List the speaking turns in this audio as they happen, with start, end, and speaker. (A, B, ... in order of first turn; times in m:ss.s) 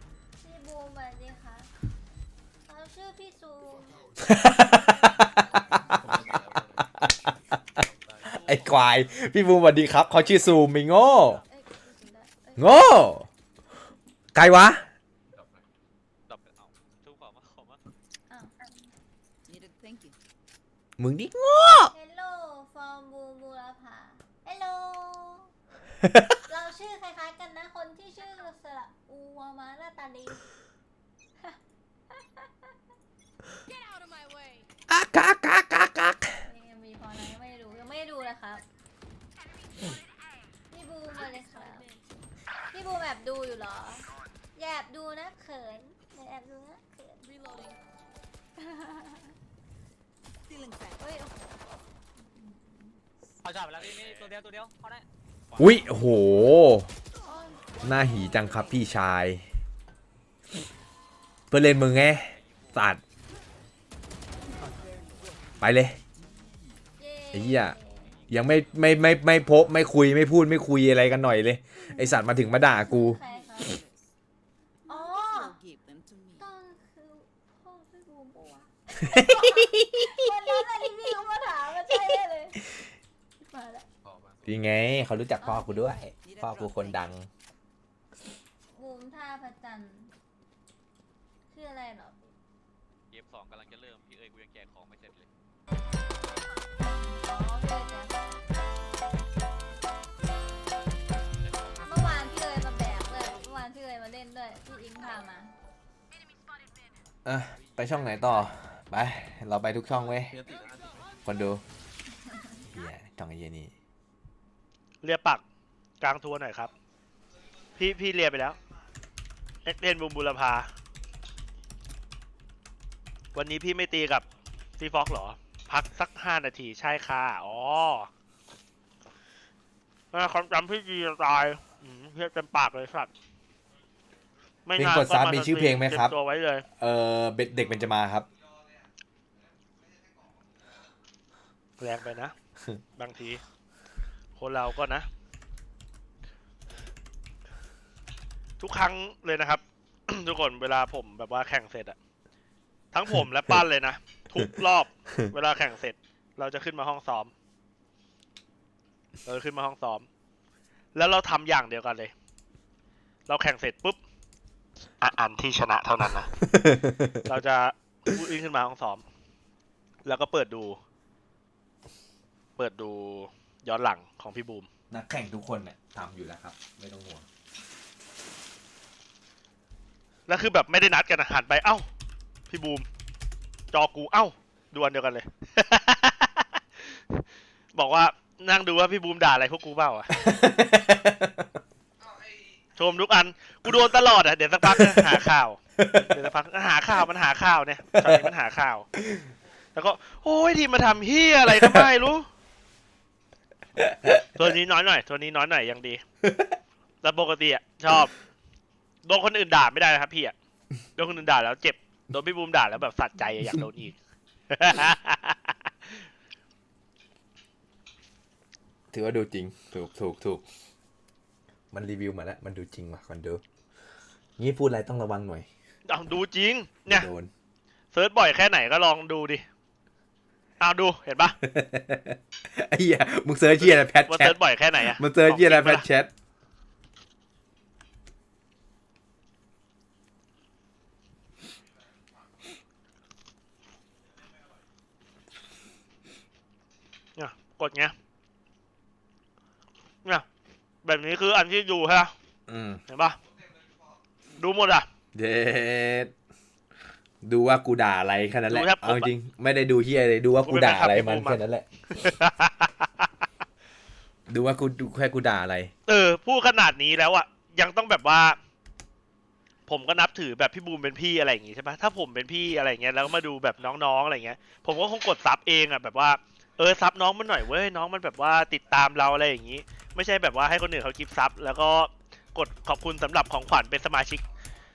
0:00.4-0:01.7 A
0:02.7-0:04.1 A
0:04.2-0:05.8 B
0:06.9-0:07.3 B
0:08.2-0:08.9 C
0:08.3-0:11.4 B
0:11.5-0:12.8 A
0:12.6-0:13.3 B
0:14.3-0:14.8 B
0:16.3-0:17.8 C
0:18.3-0:18.5 A
0:19.5-0:20.1 D
0:21.0-0:21.9 B
0:21.9-0:25.5 A
0:26.0-0:26.3 B
0:26.5-0:30.4 A
0:34.9-0:36.4 B
0:36.4-0:38.6 A
0:40.7-0:41.9 A
0:42.7-0:47.3 A
0:48.6-0:49.3 A
0:51.0-0:51.3 A
0:52.3-0:53.0 A
0:53.6-0:54.5 C
0:55.5-0:56.3 C
0:55.6-0:56.9 B
0:57.8-0:59.4 B
1:01.5-1:03.0 B
1:02.3-1:02.9 C
1:04.8-1:05.3 D
1:05.6-1:06.0 B
1:07.0-1:08.2 A
1:07.3-1:07.8 B
1:08.3-1:13.2 B
1:11.9-1:13.8 A
1:13.2-1:13.9 D
1:14.9-1:15.6 A
1:14.9-1:16.4 D
1:16.4-1:22.6 A
1:19.0-1:20.1 B
1:23.4-1:23.8 A
1:24.4-1:27.3 B
1:25.4-1:25.9 A
1:25.9-1:27.0 D
1:28.7-1:30.1 A
1:31.5-1:32.1 A
1:33.1-1:35.3 C
1:36.8-1:38.4 A
1:41.4-1:42.2 C
1:41.8-1:45.5 A
1:47.2-1:50.4 B
1:51.2-1:51.6 B
1:52.7-1:53.7 B
1:55.0-1:55.4 E
1:56.0-1:56.7 E
1:57.8-1:58.6 E
1:59.6-2:00.7 E
2:03.3-2:04.2 E
2:04.8-2:08.1 E
2:10.1-2:13.1 E
2:14.7-2:16.6 E
2:14.8-2:16.1 B
2:16.8-2:18.3 B
2:21.8-2:22.3 E
2:23.0-2:23.4 E
2:24.4-2:25.1 E
2:28.6-2:32.0 E
2:32.9-2:37.3 E
2:39.2-2:40.1 E
2:40.9-2:42.1 E
2:43.3-2:44.0 E
2:45.0-2:46.3 E
2:46.5-2:47.2 B
2:47.2-2:49.0 E
2:50.0-2:50.8 E
2:52.6-2:54.7 E
2:54.9-2:57.2 B
3:00.3-3:01.8 E
3:02.5-3:02.8 E
3:03.7-3:07.2 E
3:07.7-3:10.1 E
3:10.2-3:11.3 B
3:12.8-3:18.9 E
3:19.8-3:22.3 E
3:24.3-3:26.0 E
3:27.0-3:28.1 E
3:29.0-3:30.3 E
3:31.0-3:34.0 E
3:34.5-3:35.7 E
3:38.9-3:40.4 B
3:41.7-3:43.4 B
3:44.4-3:45.5 B
3:45.9-3:47.1 E
3:46.8-3:47.3 B
3:47.9-3:49.4 E
3:50.6-3:51.3 E
3:51.4-3:56.1 B
3:53.6-3:55.8 E
4:07.2-4:07.9 E
4:10.8-4:12.1 E
4:12.5-4:12.8 B
4:12.9-4:13.2 E
4:14.4-4:14.8 E
4:15.1-4:16.1 B
4:17.2-4:21.6 B
4:18.5-4:19.1 E
4:20.4-4:21.4 E
4:22.0-4:23.1 E
4:24.3-4:25.7 B
4:25.9-4:28.4 E
4:29.7-4:44.2 E